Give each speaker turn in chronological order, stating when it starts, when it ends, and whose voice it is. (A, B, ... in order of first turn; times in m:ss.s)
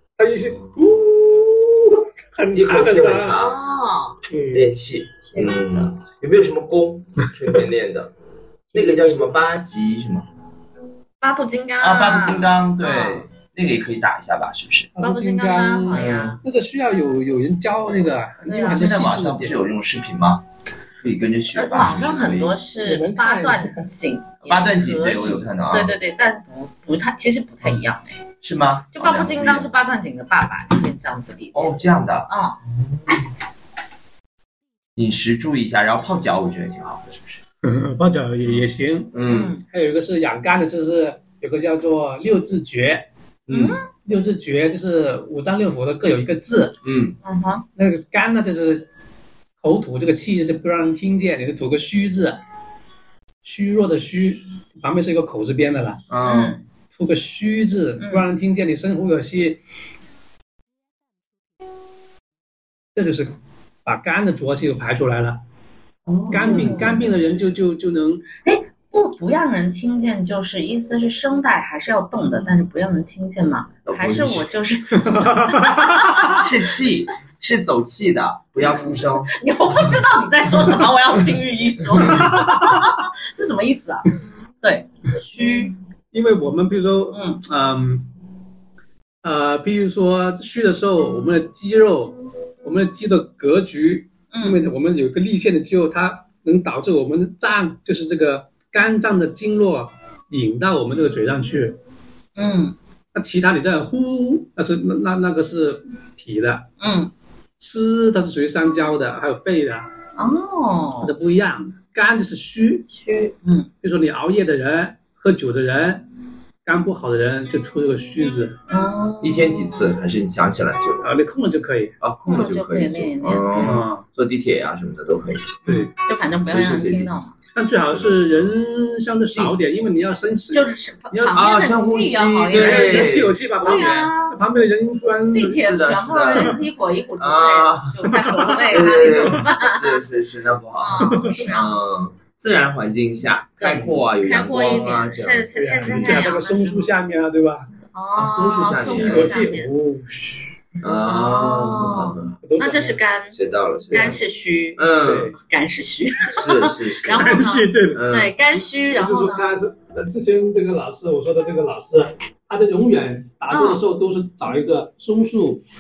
0:00.2-0:03.4 A
0:00.4-0:00.9 B
0:02.5-0:03.6 B
0:03.3-0:04.2 C
0:04.3-0:04.6 A
0:04.5-0:08.1 B
0:05.2-0:05.9 C
0:08.7-0:09.4 A
0:08.7-0:10.3 B
0:11.2-0:13.3 C
0:11.8-0:14.9 B
0:15.0-0:19.6 A
0:15.0-0:16.4 C
0:18.5-0:19.2 C
0:18.6-0:20.4 B
0:21.0-0:22.6 B
0:21.5-0:28.2 C
0:22.8-0:23.9 A
0:24.4-0:26.0 B
0:28.4-0:29.7 B
0:29.0-0:32.6 C
0:31.5-0:32.3 B
0:35.0-0:37.4 B
0:37.6-0:43.0 A
0:39.1-0:39.5 B
0:39.3-0:39.6 C
0:43.5-0:43.8 B
0:43.5-0:43.9 C
0:43.9-0:46.8 A
0:46.8-0:47.2 B
0:47.2-0:47.6 C
0:47.8-0:48.9 A
0:49.6-0:52.4 A
0:53.4-0:56.0 A
0:56.1-0:56.6 B
0:56.2-0:56.6 C
0:57.0-0:59.6 A
0:58.0-0:58.2 C
1:03.0-1:05.4 A
1:06.1-1:07.4 B
1:06.3-1:08.2 A
1:06.3-1:07.0 C
1:08.4-1:16.5 C
1:13.9-1:14.5 B
1:15.1-1:16.4 A
1:16.4-1:19.3 B
1:18.6-1:25.7 C
1:22.0-1:22.3 B
1:22.1-1:23.0 A
1:26.1-1:28.1 A
1:27.1-1:27.4 C
1:29.2-1:41.8 A
1:34.3-1:34.6 C
1:42.4-1:42.8 C
1:43.1-1:46.7 A
1:46.8-1:47.1 C
1:47.6-1:49.9 A
1:50.2-1:51.1 C
1:51.0-1:52.9 A
1:52.9-1:53.7 C
1:53.8-1:56.0 A
1:56.6-1:58.6 A
1:58.7-1:59.9 C
1:59.2-2:01.1 B
2:01.0-2:02.0 A
2:02.0-2:05.9 B
2:02.3-2:03.8 C
2:03.6-2:04.0 A
2:05.6-2:05.9 A
2:05.7-2:07.4 C
2:06.4-2:07.1 B
2:07.6-2:11.4 A
2:07.9-2:08.5 B
2:10.5-2:14.4 C
2:11.3-2:13.9 B
2:12.5-2:15.8 A
2:15.3-2:20.0 C
2:15.4-2:16.6 B
2:16.3-2:16.6 A
2:17.2-2:26.3 B
2:18.1-2:19.5 A
2:20.8-2:21.8 C
2:21.1-2:21.4 A
2:23.6-2:26.9 C
2:25.6-2:27.7 A
2:27.9-2:29.7 C
2:28.2-2:29.4 B
2:28.8-2:30.4 A
2:30.8-2:32.4 B
2:31.0-2:33.4 C
2:32.4-2:33.0 A
2:33.3-2:34.2 B
2:33.9-2:39.5 C
2:34.8-2:35.3 B
2:35.0-2:35.4 A
2:36.3-2:37.4 B
2:37.1-2:38.0 A
2:37.9-2:38.3 B
2:39.0-2:45.6 A
2:43.5-2:43.8 C